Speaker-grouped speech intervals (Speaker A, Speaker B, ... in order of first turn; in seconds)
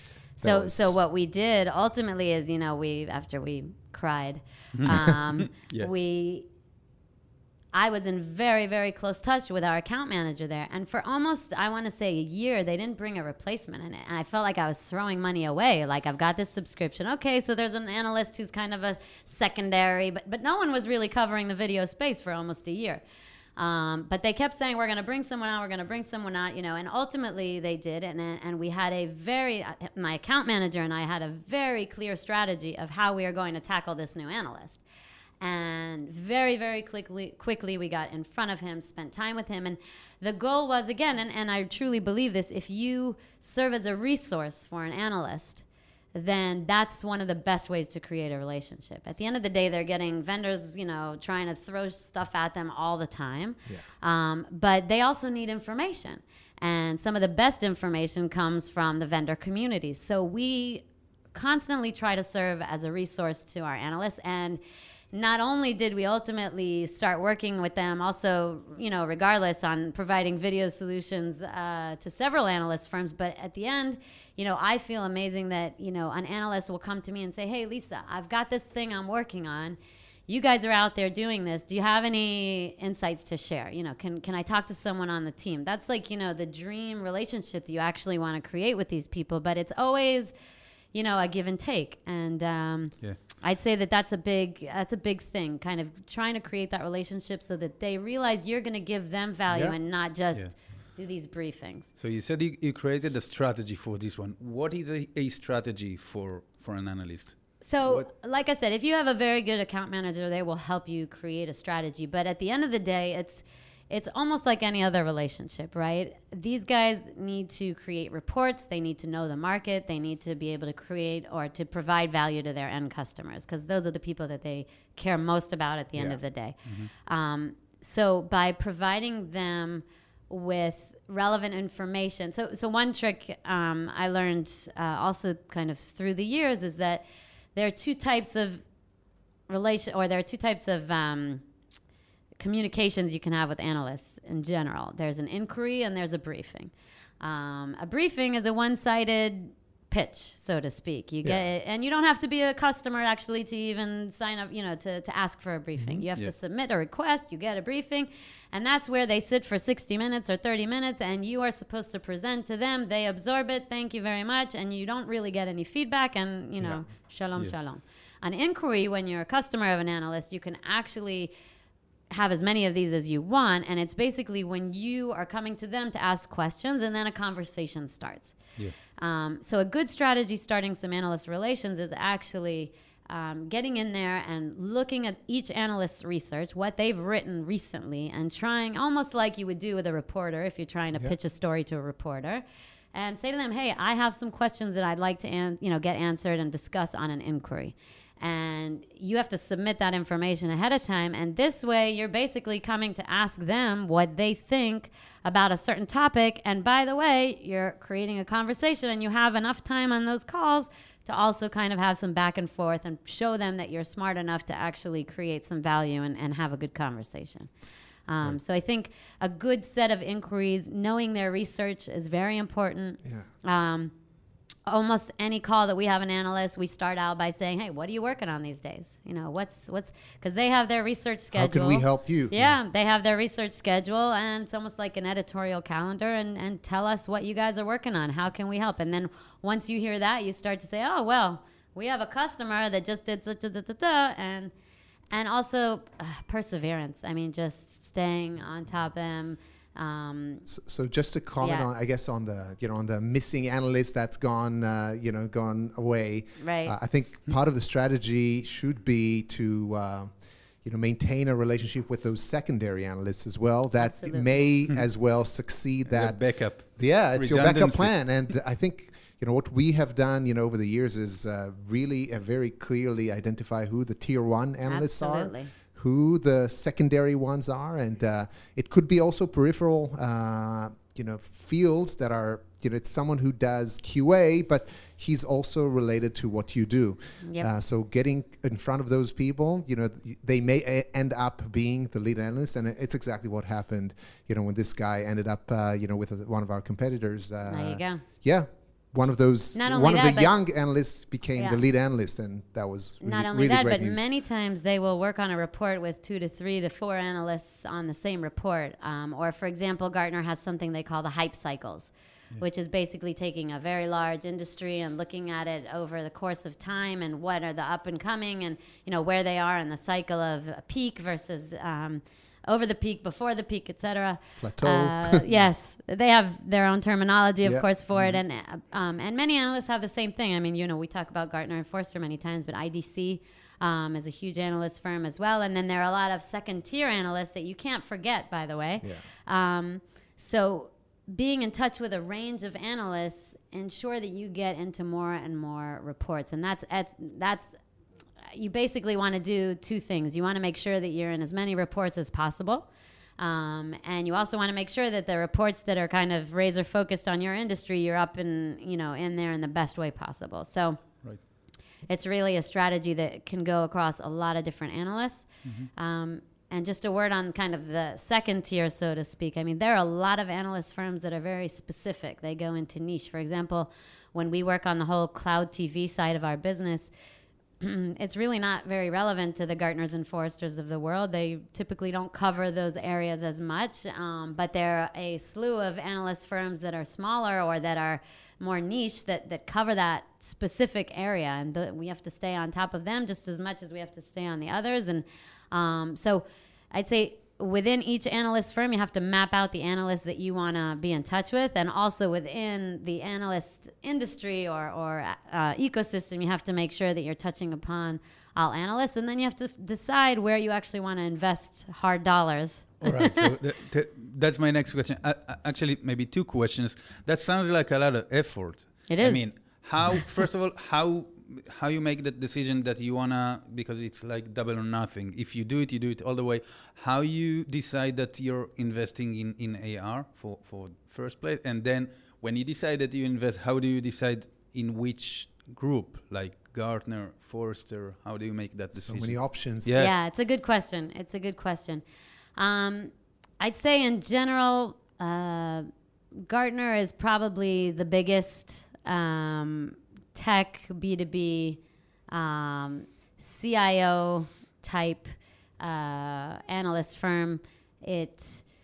Speaker A: 0.4-6.5, 7.7-23.0, 23.6-34.8, 35.4-64.6, 65.1-79.8, 80.3-90.3, 90.9-101.9, 107.6-138.6, 139.5-141.4, 142.4-171.3, 172.1-217.5, 218.1-223.9, 224.7-244.5, 245.1-250.5, 251.4-251.7, 256.4-256.8, 263.8-264.4, 274.6-275.5, 287.2-287.5, 297.5-298.0, 299.5-300.4, 301.3-301.6, 303.0-347.6, 348.3-361.2, 361.9-376.9, 377.6-413.3, 418.9-419.9, 439.8-441.8, 442.4-458.5
Speaker B: 0.4-0.9, 99.5-99.8, 166.6-166.8, 231.3-232.3, 250.5-304.0, 324.4-325.4, 338.8-339.1, 438.8-439.8
Speaker C: 4.7-5.9, 102.0-108.1, 126.6-126.9, 265.9-268.0, 327.9-328.2, 365.4-365.7, 412.8-439.9